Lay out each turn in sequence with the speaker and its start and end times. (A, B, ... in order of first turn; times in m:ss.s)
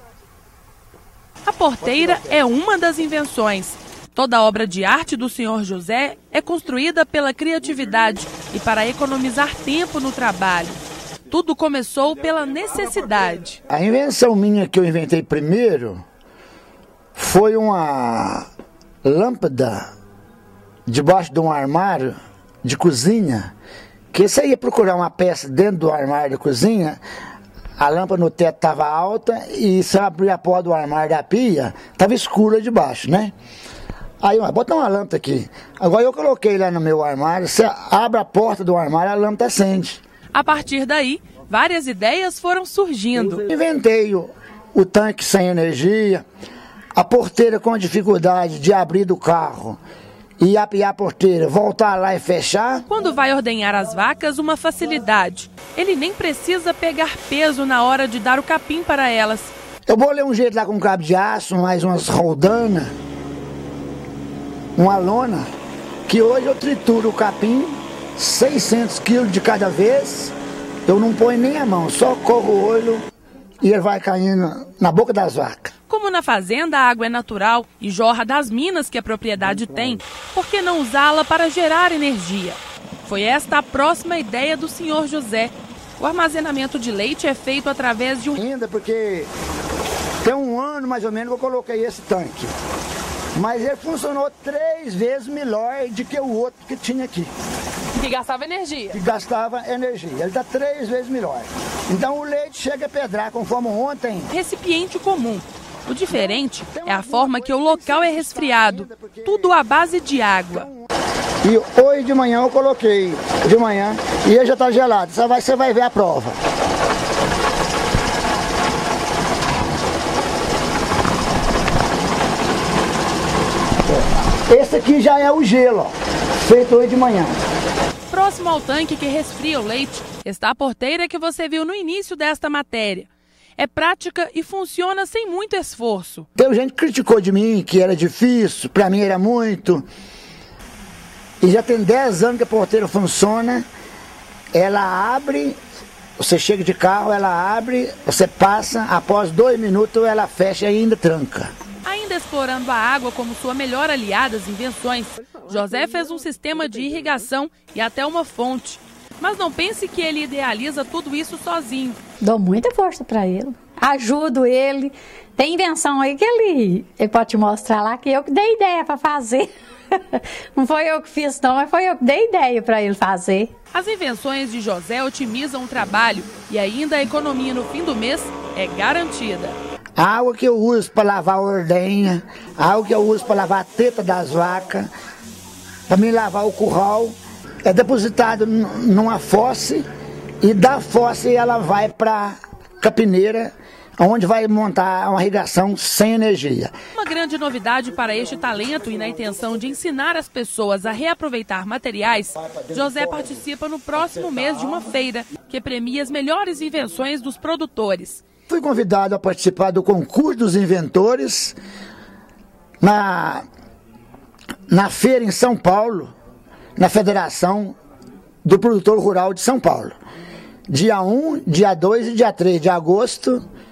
0:01.4-0:13.6 A
0:13.7-0:16.0 B
0:17.1-0:18.5 B
0:19.0-0:19.9 B
0:20.9-0:23.5 B
0:24.1-0:27.0 B
0:27.8-0:33.3 B
0:34.2-0:40.0 B
0:40.3-0:43.4 A
0:43.4-0:46.2 B
0:46.9-0:49.8 B
0:50.4-0:52.8 B
0:52.9-0:59.5 A
0:59.9-1:02.9 B
1:04.8-1:05.5 B
1:06.1-1:10.3 B
1:10.8-1:13.0 B
1:13.6-1:15.7 B
1:15.9-1:28.4 A
1:28.4-1:29.3 B
1:30.2-1:32.5 B
1:33.3-1:37.3 B
1:37.9-1:39.0 A
1:38.9-1:44.3 B
1:44.3-1:50.7 A
1:46.1-1:49.6 B
1:50.5-1:50.9 B
1:51.4-1:56.4 B
2:04.5-2:07.4 B
2:08.1-2:16.3 A
2:16.4-2:19.8 B
2:21.4-2:23.6 B
2:24.5-2:25.6 B
2:26.2-2:31.5 B
2:31.8-2:42.0 A
2:42.2-2:53.5 C
2:53.7-2:59.6 A
3:00.0-3:04.9 B
3:05.9-3:09.8 B
3:10.4-3:16.7 B
3:16.9-3:28.2 A
3:22.4-3:23.4 B
3:24.0-3:24.8 B
3:28.5-3:31.6 B
3:32.8-3:33.4 B
3:34.7-3:36.1 B
3:36.8-3:37.8 B
3:38.4-3:39.9 B
3:40.7-3:43.4 B